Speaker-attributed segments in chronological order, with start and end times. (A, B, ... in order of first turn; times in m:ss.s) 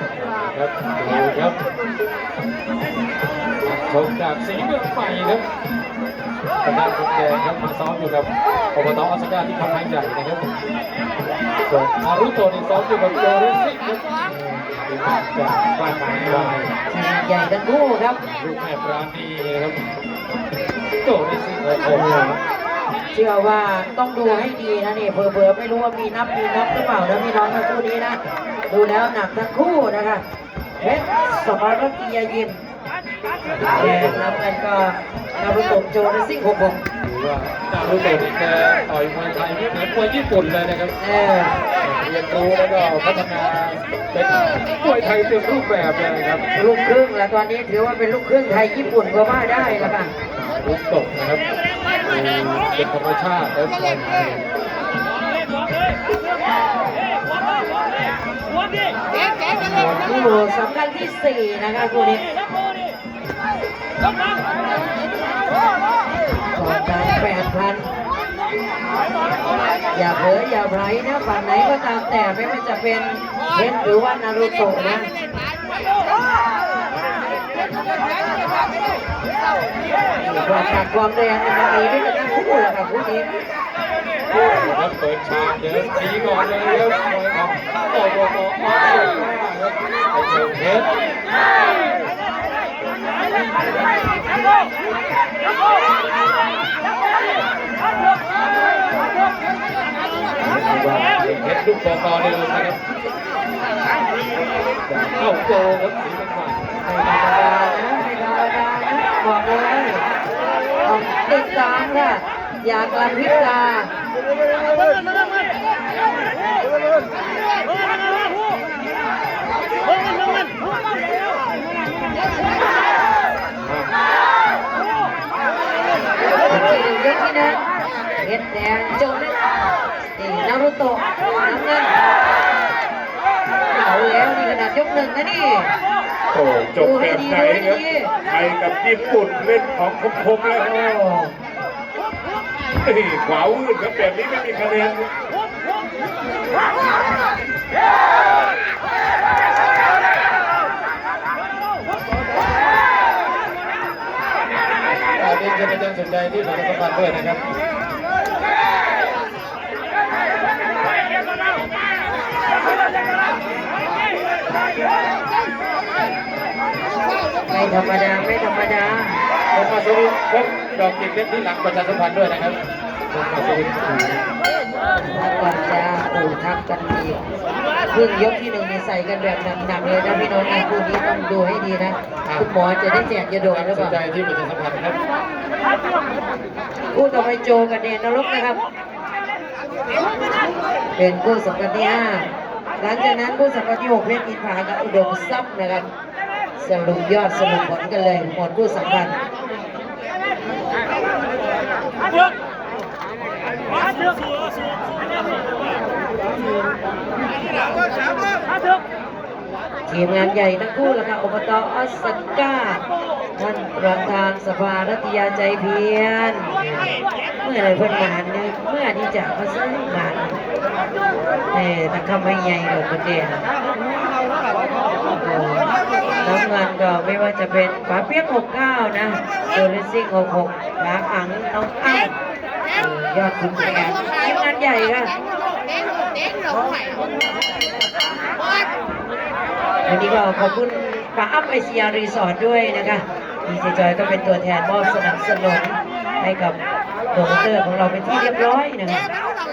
0:00.2-0:01.6 A
0:03.6-0:05.4 A
0:06.6-0:10.5 A
0:11.6-0:14.2 A
0:14.3-0:14.6 B
0:14.7-0:16.7 A
0:16.1-0:18.2 B
0:18.2-0:19.8 A
0:21.0-0:22.4 A
0:21.9-0:22.4 B
0:23.1-0:30.2 B
0:30.8-0:32.6 B
0:33.5-0:34.3 A
0:33.7-0:36.8 B
0:37.0-0:41.0 A
0:41.0-0:41.6 B
0:41.8-0:46.4 A
0:46.5-0:50.1 B
0:49.6-0:51.4 A
0:52.0-0:54.4 A
0:59.5-1:02.3 B
1:06.6-1:07.9 B
1:09.9-1:15.1 B
1:20.2-1:23.3 B
1:24.4-1:30.9 A
1:40.4-1:42.8 A
1:44.8-1:46.8 A
1:46.8-1:50.1 B
1:50.8-1:53.9 B
2:03.6-2:03.9 A
2:06.5-2:07.7 B
2:08.2-2:09.4 B
2:10.2-2:12.0 B
2:13.7-2:15.8 B
2:16.3-2:20.7 C
2:16.8-2:18.1 B
2:20.6-2:21.4 B
2:22.8-2:25.1 C
2:35.1-2:37.4 A
2:47.5-2:49.2 B
2:49.5-2:52.6 A
2:53.1-2:54.2 A
2:55.0-2:57.2 B
2:57.9-3:04.0 B
3:02.2-3:02.5 A
3:03.4-3:05.0 A
3:06.9-3:08.6 B
3:10.9-3:15.9 B
3:16.6-3:19.2 B
3:29.9-3:32.8 B
3:33.4-3:40.4 B
3:41.5-3:43.5 B
3:45.0-3:52.2 B
3:52.7-3:55.1 B
3:59.9-4:06.6 B
4:07.1-4:09.1 B